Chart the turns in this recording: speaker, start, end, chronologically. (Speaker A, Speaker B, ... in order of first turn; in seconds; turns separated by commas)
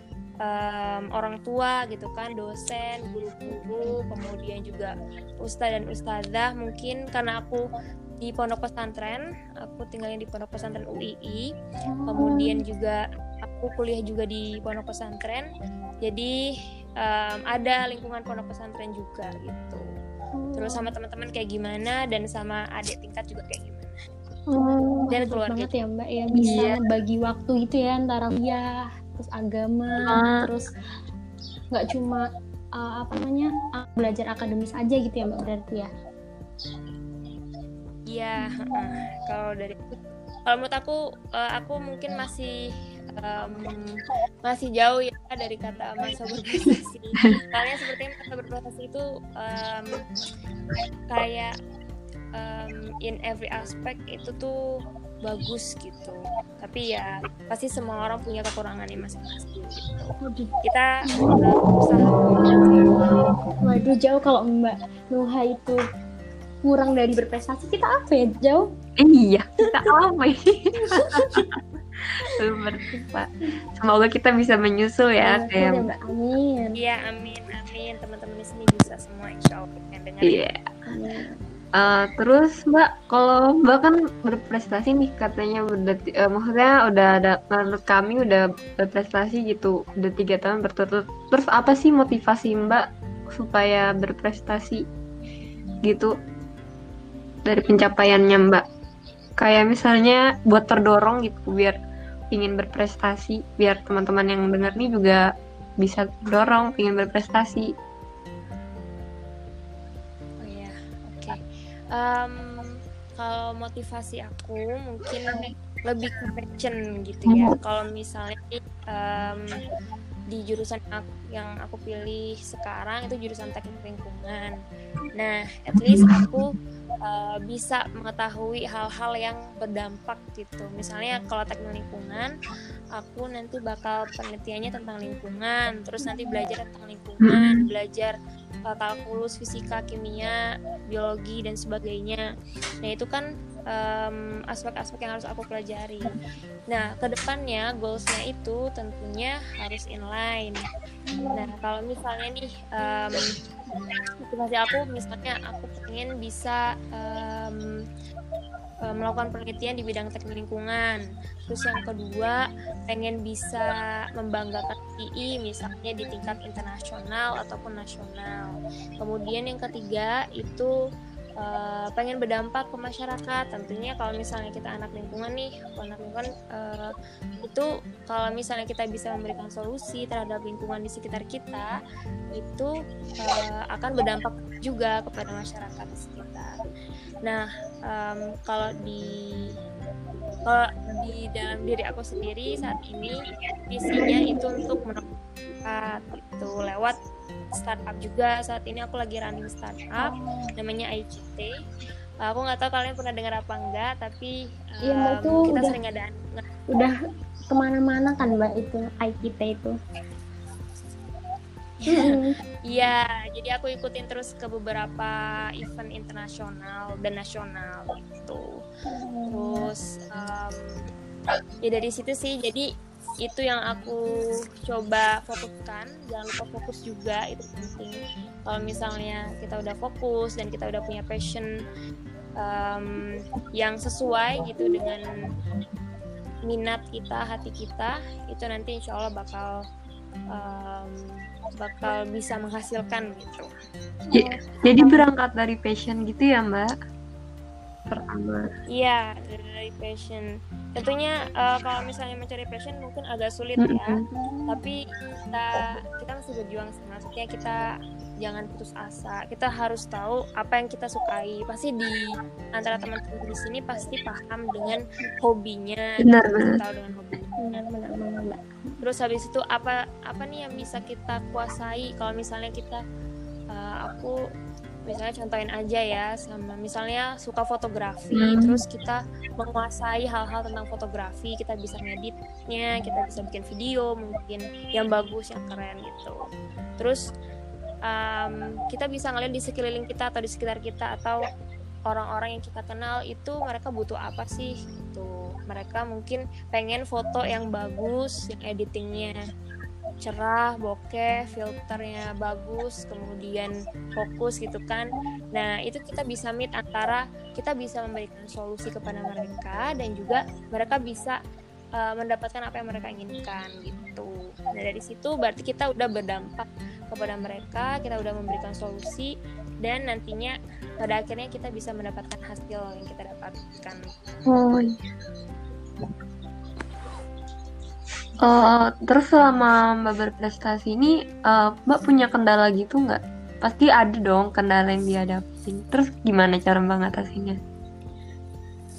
Speaker A: 0.4-7.6, Speaker A: 8.2-11.5, Speaker B: 11.9-12.6, Speaker A: 12.1-15.5, Speaker A: 16.0-16.3, Speaker A: 17.0-19.8, Speaker B: 20.4-20.9, Speaker A: 20.6-23.9, Speaker C: 24.5-25.0, Speaker B: 25.0-30.7, Speaker A: 25.1-25.7, Speaker C: 26.3-26.8, Speaker C: 30.0-30.5, Speaker B: 31.7-32.3, Speaker B: 32.8-35.9, Speaker A: 38.1-50.0, Speaker A: 51.1-51.5, Speaker A: 52.4-54.6, Speaker A: 55.2-60.1, Speaker B: 60.2-60.5, Speaker A: 60.6-63.0, Speaker B: 61.1-61.4, Speaker B: 63.6-65.8, Speaker B: 66.6-68.7, Speaker C: 69.0-71.6, Speaker B: 70.9-71.5, Speaker C: 72.2-75.9, Speaker B: 75.2-76.8, Speaker A: 76.8-80.4, Speaker C: 80.2-80.7, Speaker B: 80.9-81.4, Speaker C: 81.8-94.8, Speaker C: 95.8-96.1, Speaker C: 97.5-98.6, Speaker C: 99.4-101.8, Speaker C: 102.3-105.2, Speaker C: 105.8-107.7, Speaker A: 110.4-111.4, Speaker A: 111.9-119.5, Speaker C: 117.3-117.5, Speaker A: 120.3-124.6, Speaker A: 125.2-126.5, Speaker C: 125.9-126.3, Speaker A: 127.0-132.3, Speaker A: 133.0-138.2, Speaker C: 137.2-137.6, Speaker A: 138.7-140.4, Speaker A: 140.9-142.2, Speaker A: 142.8-146.1, Speaker A: 146.7-150.6, Speaker A: 151.3-153.2, Speaker A: 154.3-157.7, Speaker A: 158.9-170.7, Speaker A: 171.4-176.9, Speaker A: 177.4-181.7, Speaker A: 182.3-186.6, Speaker A: 187.2-189.5, Speaker A: 190.5-193.2, Speaker A: 193.7-195.0, Speaker A: 195.7-197.0, Speaker A: 197.6-201.5, Speaker B: 200.0-200.5, Speaker A: 202.2-206.4, Speaker B: 204.8-205.8, Speaker B: 206.7-206.9, Speaker B: 207.5-209.8, Speaker A: 211.8-218.4, Speaker B: 211.9-212.3, Speaker B: 218.9-219.7, Speaker A: 219.3-220.7, Speaker A: 221.6-222.7, Speaker A: 223.2-224.0, Speaker A: 224.7-231.5, Speaker A: 232.4-235.1, Speaker A: 236.5-239.5, Speaker A: 240.3-241.0, Speaker A: 241.6-243.5, Speaker B: 244.1-245.0, Speaker C: 244.1-246.7, Speaker C: 247.9-248.5, Speaker A: 248.7-254.0, Speaker C: 253.6-254.0, Speaker B: 254.1-254.5, Speaker A: 254.5-254.8, Speaker A: 255.3-257.6, Speaker A: 258.2-267.7, Speaker C: 266.0-266.6, Speaker B: 267.4-268.8, Speaker A: 268.8-272.8, Speaker A: 273.5-274.1, Speaker A: 274.9-286.2, Speaker C: 278.1-278.6, Speaker A: 287.9-291.2, Speaker A: 291.9-299.2, Speaker A: 300.0-311.2, Speaker A: 311.8-323.9, Speaker C: 324.3-324.8, Speaker C: 328.2-337.4